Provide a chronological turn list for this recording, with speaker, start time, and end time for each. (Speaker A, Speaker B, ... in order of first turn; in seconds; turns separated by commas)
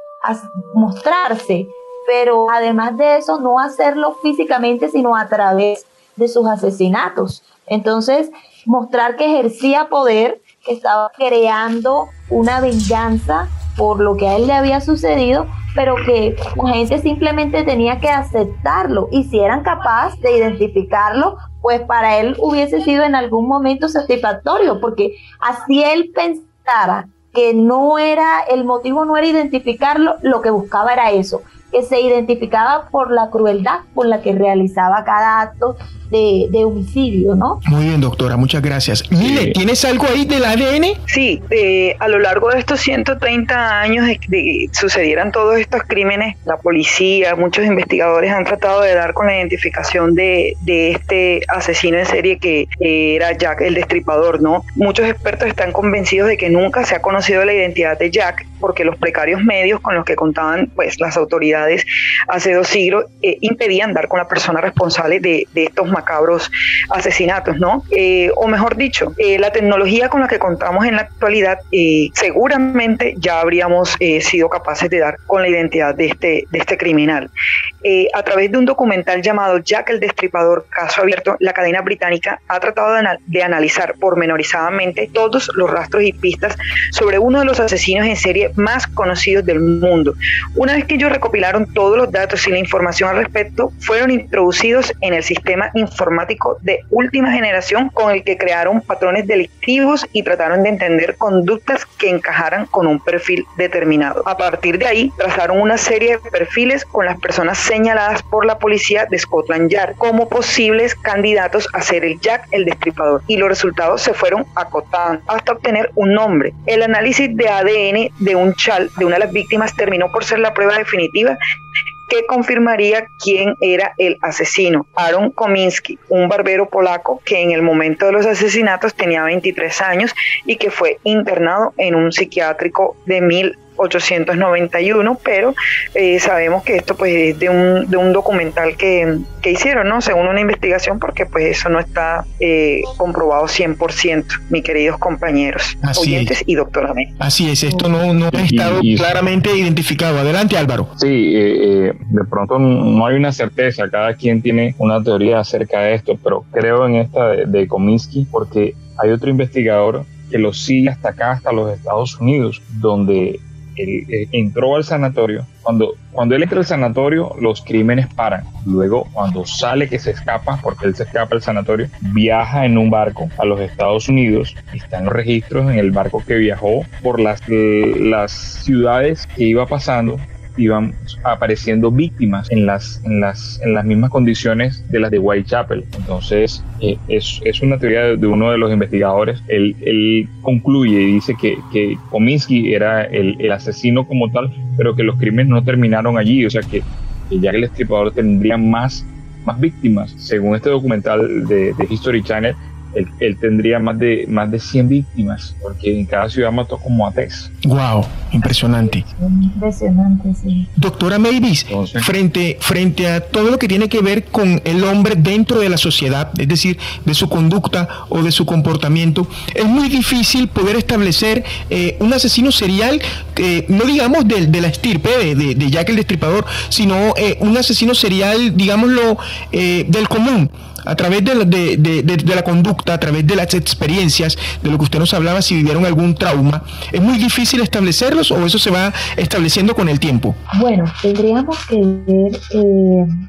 Speaker A: 0.2-37.6, Speaker B: 37.6-41.0, Speaker C: 39.2-39.6, Speaker D: 41.1-77.3, Speaker D: 77.8-121.4, Speaker D: 122.1-147.1, Speaker B: 145.8-146.3, Speaker B: 147.2-150.9, Speaker C: 148.3-149.1, Speaker C: 151.0-207.5, Speaker B: 207.6-209.1, Speaker A: 208.4-210.7, Speaker B: 210.8-240.4, Speaker C: 211.7-212.1, Speaker A: 240.5-243.1